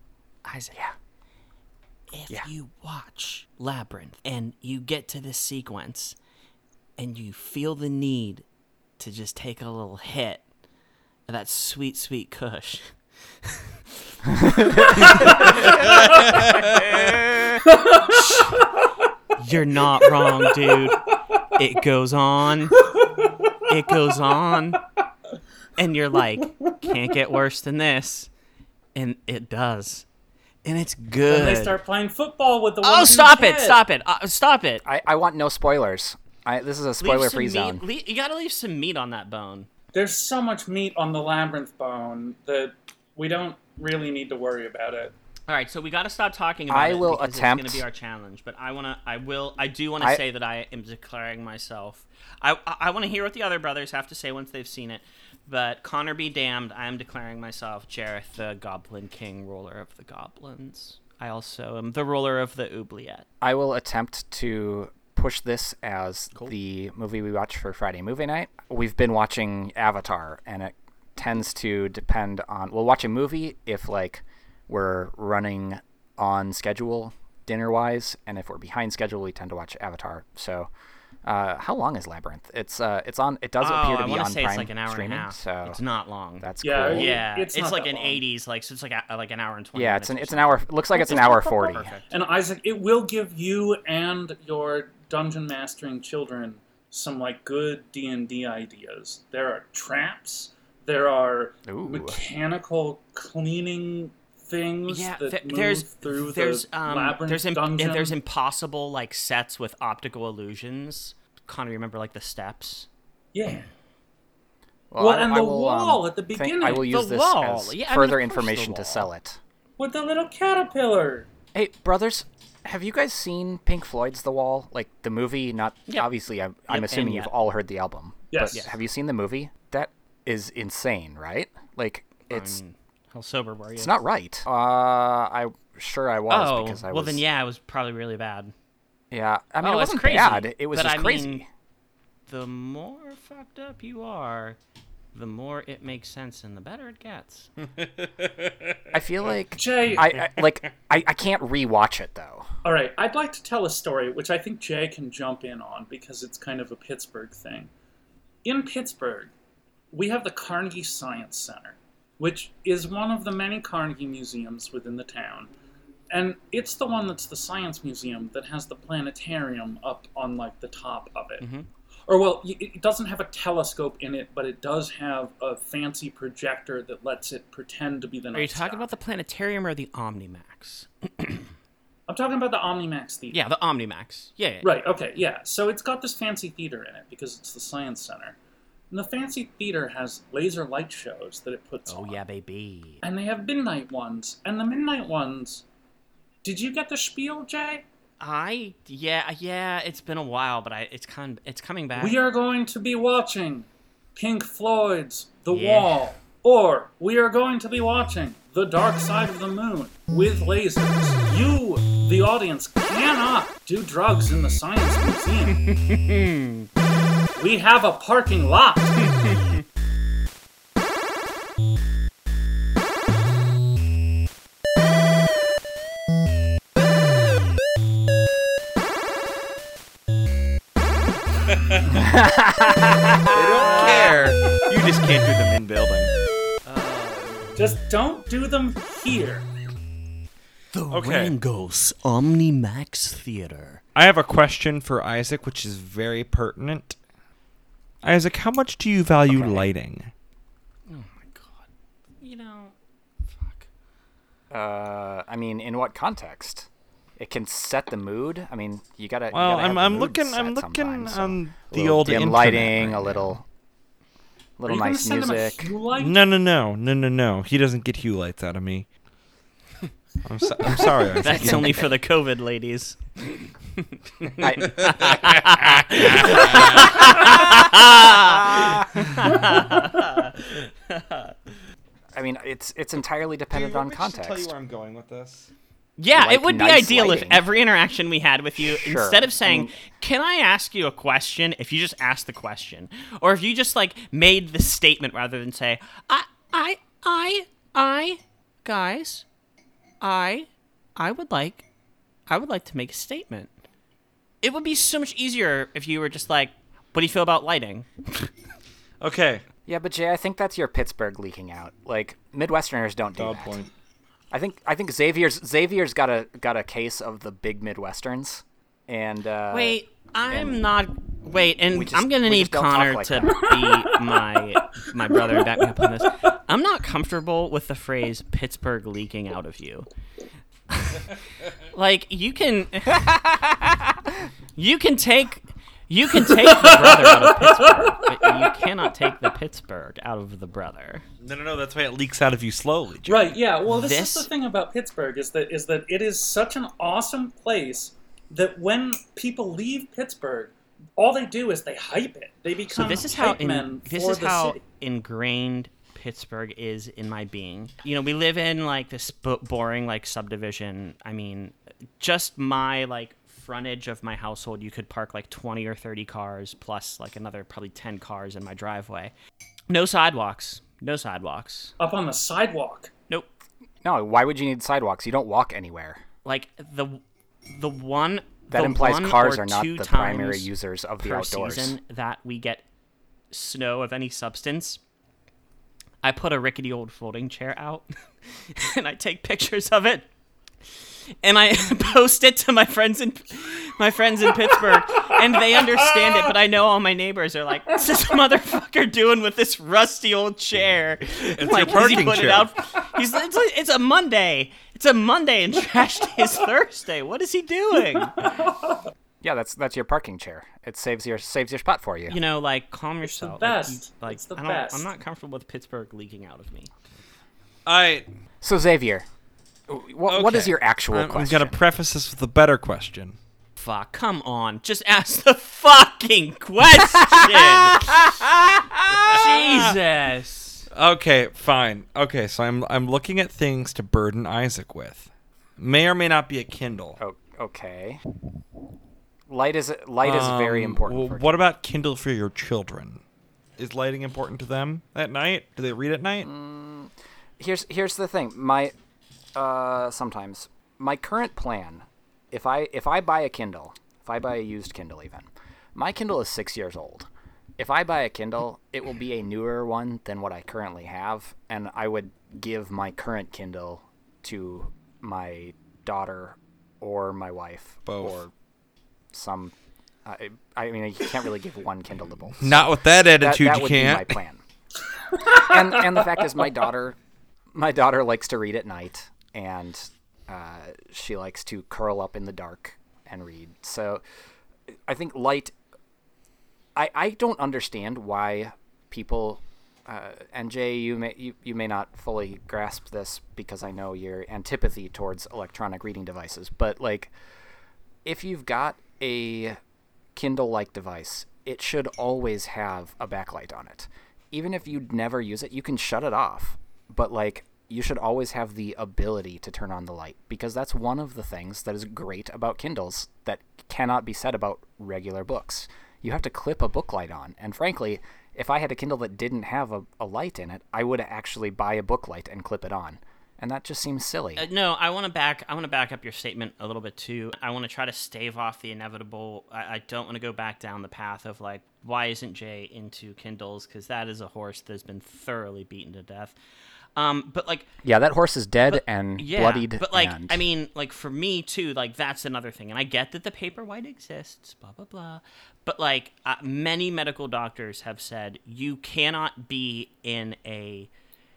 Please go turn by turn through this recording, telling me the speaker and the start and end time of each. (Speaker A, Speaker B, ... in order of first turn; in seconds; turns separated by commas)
Speaker A: 0.4-0.8, Speaker A: 2.1-6.2, Speaker A: 7.0-8.4, Speaker A: 9.0-10.4, Speaker A: 11.3-13.7, Speaker B: 14.4-15.0, Speaker A: 14.7-17.6, Speaker C: 15.7-16.9, Speaker D: 17.6-18.7, Speaker A: 18.1-18.4, Speaker A: 19.4-21.0, Speaker D: 20.0-20.9, Speaker A: 21.5-22.8, Speaker D: 22.8-23.6, Speaker A: 23.7-24.8, Speaker A: 25.8-28.3, Speaker A: 28.9-30.1, Speaker A: 30.6-31.8, Speaker D: 31.3-33.8, Speaker A: 32.8-34.8, Speaker B: 34.8-37.8, Speaker A: 37.0-39.7, Speaker D: 39.9-45.1, Speaker A: 45.5-63.2, Speaker B: 46.7-47.8, Speaker B: 63.4-80.7, Speaker B: 81.2-85.8, Speaker A: 83.6-92.1, Speaker B: 86.4-87.1, Speaker D: 86.6-88.2, Speaker B: 89.7-91.9, Speaker D: 91.0-108.2, Speaker B: 101.7-102.2, Speaker A: 104.9-112.9, Speaker D: 113.3-113.7, Speaker B: 114.9-119.4, Speaker D: 115.0-116.9, Speaker A: 116.6-119.1, Speaker D: 119.8-121.3, Speaker B: 121.5-132.6, Speaker A: 126.7-127.3, Speaker D: 128.3-128.6, Speaker A: 128.5-128.8, Speaker A: 132.3-134.0, Speaker B: 133.8-137.2, Speaker A: 136.3-138.5, Speaker B: 139.1-141.5, Speaker A: 139.6-141.4, Speaker A: 142.3-144.6, Speaker A: 145.1-147.5, Speaker C: 147.8-148.8, Speaker B: 148.9-152.5, Speaker D: 149.6-150.1, Speaker D: 152.6-157.7, Speaker D: 158.4-159.3, Speaker D: 159.9-165.5, Speaker D: 166.1-171.4, Speaker A: 171.4-171.7, Speaker D: 172.1-178.9, Speaker A: 178.3-181.5, Speaker D: 182.1-183.4, Speaker A: 183.3-184.7, Speaker D: 184.6-188.3, Speaker D: 188.9-192.2, Speaker A: 191.9-193.0, Speaker D: 193.0-195.6, Speaker D: 196.4-197.8, Speaker A: 198.2-202.2, Speaker D: 202.0-215.6, Speaker A: 205.5-206.0, Speaker A: 215.5-216.7, Speaker D: 217.3-219.0, Speaker A: 219.0-219.6, Speaker B: 231.9-234.1, Speaker C: 233.3-236.1, Speaker A: 233.7-234.2, Speaker A: 236.6-237.6, Speaker D: 237.6-239.5, Speaker A: 240.7-243.8, Speaker C: 240.9-241.3, Speaker C: 243.9-247.0, Speaker C: 248.0-250.1, Speaker B: 249.3-249.7, Speaker A: 250.9-251.7, Speaker A: 252.2-252.7, Speaker A: 253.3-253.7, Speaker B: 254.5-263.4, Speaker C: 259.3-263.3, Speaker B: 264.6-265.7, Speaker D: 264.6-266.2, Speaker C: 265.9-268.9, Speaker C: 270.2-271.9, Speaker A: 271.1-281.4, Speaker B: 274.4-275.2, Speaker C: 274.6-276.9, Speaker B: 276.1-277.5, Speaker B: 278.4-278.8, Speaker B: 282.1-284.5, Speaker C: 283.5-285.5, Speaker A: 286.0-299.2, Speaker B: 286.1-287.4, Speaker B: 288.6-289.7, Speaker A: 300.0-301.7, Speaker A: 302.3-303.5, Speaker A: 304.4-308.3, Speaker C: 309.0-309.4, Speaker B: 309.7-313.6, Speaker C: 313.1-313.7, Speaker B: 314.3-320.6, Speaker A: 319.5-329.9, Speaker B: 321.7-323.5, Speaker D: 323.5-324.2, Speaker D: 325.1-325.8, Speaker A: 330.7-331.1, Speaker A: 331.7-333.7, Speaker A: 334.6-341.0, Speaker D: 336.2-338.5, Speaker C: 341.2-343.4, Speaker D: 343.1-354.6, Speaker A: 343.7-344.3, Speaker A: 352.7-369.1, Speaker A: 369.7-371.7, Speaker D: 371.8-372.9, Speaker B: 373.8-376.0, Speaker A: 376.2-380.5, Speaker B: 378.5-381.8, Speaker A: 381.0-382.6, Speaker A: 383.3-384.8, Speaker A: 386.0-390.1, Speaker A: 391.2-408.3, Speaker D: 395.6-396.3, Speaker C: 401.4-402.5, Speaker D: 408.2-408.8, Speaker B: 409.2-412.1, Speaker A: 412.1-416.7, Speaker D: 413.0-414.9, Speaker C: 417.6-418.1, Speaker B: 418.4-419.1, Speaker B: 419.7-421.6, Speaker C: 420.1-423.2, Speaker A: 423.6-428.0, Speaker B: 427.0-429.2, Speaker C: 428.9-429.8, Speaker A: 429.0-430.6, Speaker C: 430.7-437.0, Speaker B: 437.0-438.0, Speaker B: 439.3-441.4, Speaker C: 440.0-443.0, Speaker C: 443.6-446.3, Speaker B: 446.2-448.7, Speaker B: 449.3-468.3, Speaker C: 467.9-468.2, Speaker B: 469.1-469.5, Speaker B: 470.0-474.4, Speaker C: 472.4-474.1, Speaker D: 475.1-476.1, Speaker B: 475.2-477.0, Speaker B: 477.5-484.0, Speaker B: 484.9-485.5, Speaker B: 486.8-497.1, Speaker B: 498.0-499.6, Speaker B: 500.1-524.5, Speaker A: 524.4-536.4, Speaker A: 537.0-537.7, Speaker B: 537.8-540.4, Speaker A: 538.7-550.9